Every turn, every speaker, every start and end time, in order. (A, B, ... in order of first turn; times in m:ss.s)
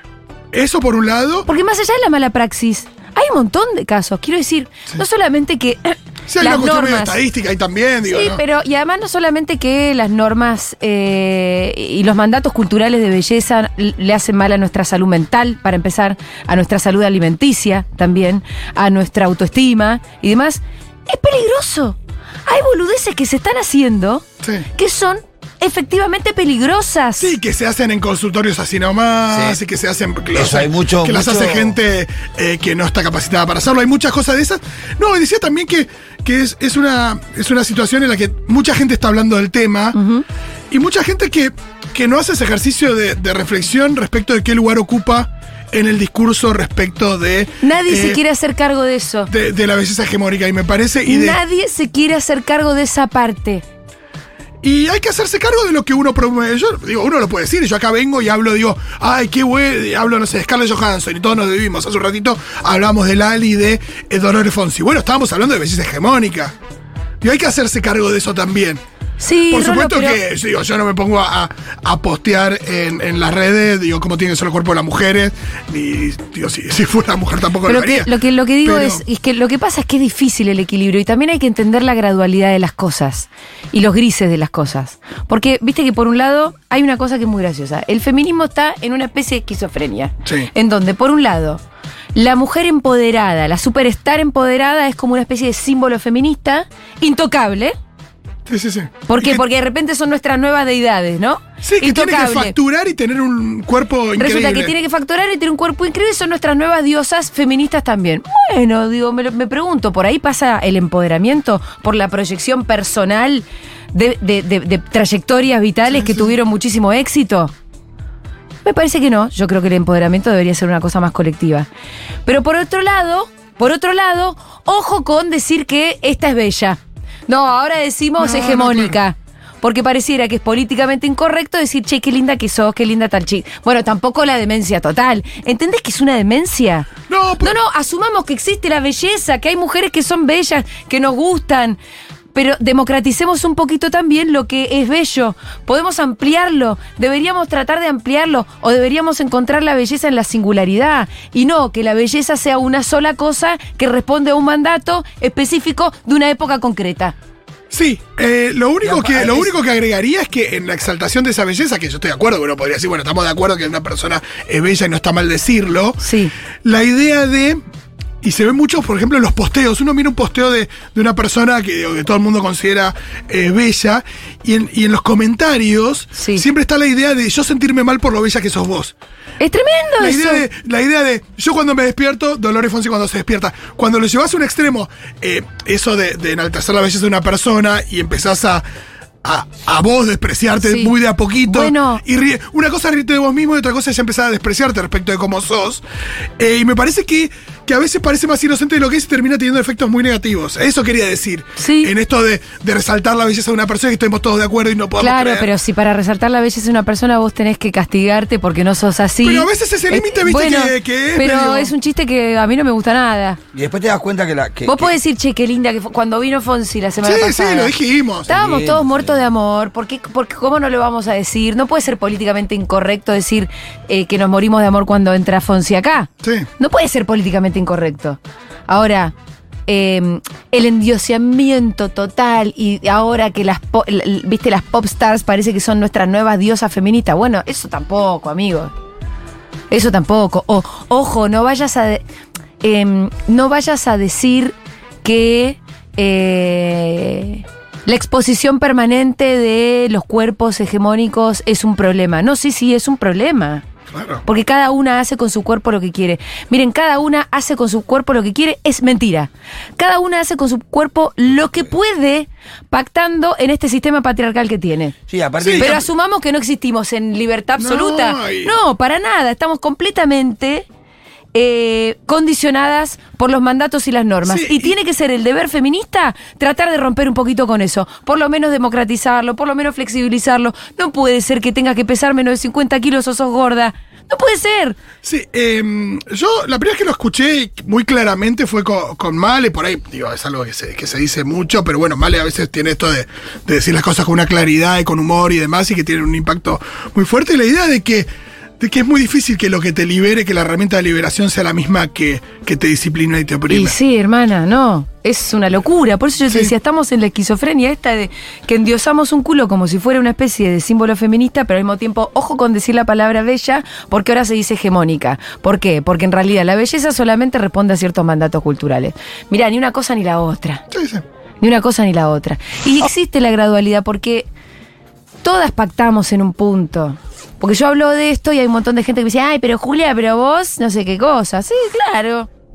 0:00.5-0:01.5 A
0:01.5-0:07.2 B
0:06.3-0:08.4 A
0:08.1-0:27.3 B
0:27.2-0:40.0 A
0:29.3-0:29.6 C
0:30.3-0:31.8 C
0:40.0-0:40.2 B
0:40.7-0:48.2 A
0:47.6-0:49.3 B
0:49.3-0:51.4 A
0:51.1-0:53.6 B
0:54.6-1:06.5 A
1:07.2-1:08.8 A
1:09.2-1:10.2 B
1:09.5-1:18.1 A
1:17.7-1:31.6 B
1:18.6-1:19.0 A
1:32.2-1:37.8 B
1:38.5-1:39.4 A
1:39.1-1:42.6 B
1:41.6-1:44.7 A
1:44.2-1:57.5 B
1:55.9-1:56.4 A
1:58.6-2:01.7 B
2:02.3-2:16.9 B
2:08.2-2:09.0 A
2:17.1-2:17.6 A
2:17.4-2:21.8 B
2:22.3-2:37.2 B
2:37.7-2:46.0 A
2:38.8-2:39.5 C
2:46.0-2:46.3 B
2:46.6-2:47.6 A
2:48.2-2:59.0 A
2:56.2-2:56.4 B
2:59.4-3:00.5 B
3:00.0-3:08.6 A
3:09.2-3:15.8 A
3:10.6-3:12.0 B
3:16.4-3:25.5 A
3:21.6-3:21.9 B
3:25.0-3:33.4 B
3:29.2-3:31.7 A
3:33.5-3:34.9 C
3:34.6-3:37.7 B
3:37.0-3:38.3 A
3:38.3-3:49.1 B
3:38.3-3:39.2 C
3:49.7-3:58.7 B
3:59.7-4:02.0 B
4:02.6-4:13.6 B
4:13.9-4:14.2 A
4:14.3-4:25.0 B
4:25.1-4:25.7 C
4:25.4-4:25.8 A
4:25.6-4:30.7 B
4:27.6-4:28.6 A
4:31.3-4:44.8 B
4:34.2-4:34.8 A
4:45.0-4:58.1 A
4:58.6-5:03.8 A
5:03.5-5:20.6 B
5:06.3-5:06.5 A
5:20.7-5:21.0 A
5:21.4-5:24.3 B
5:25.2-5:32.3 B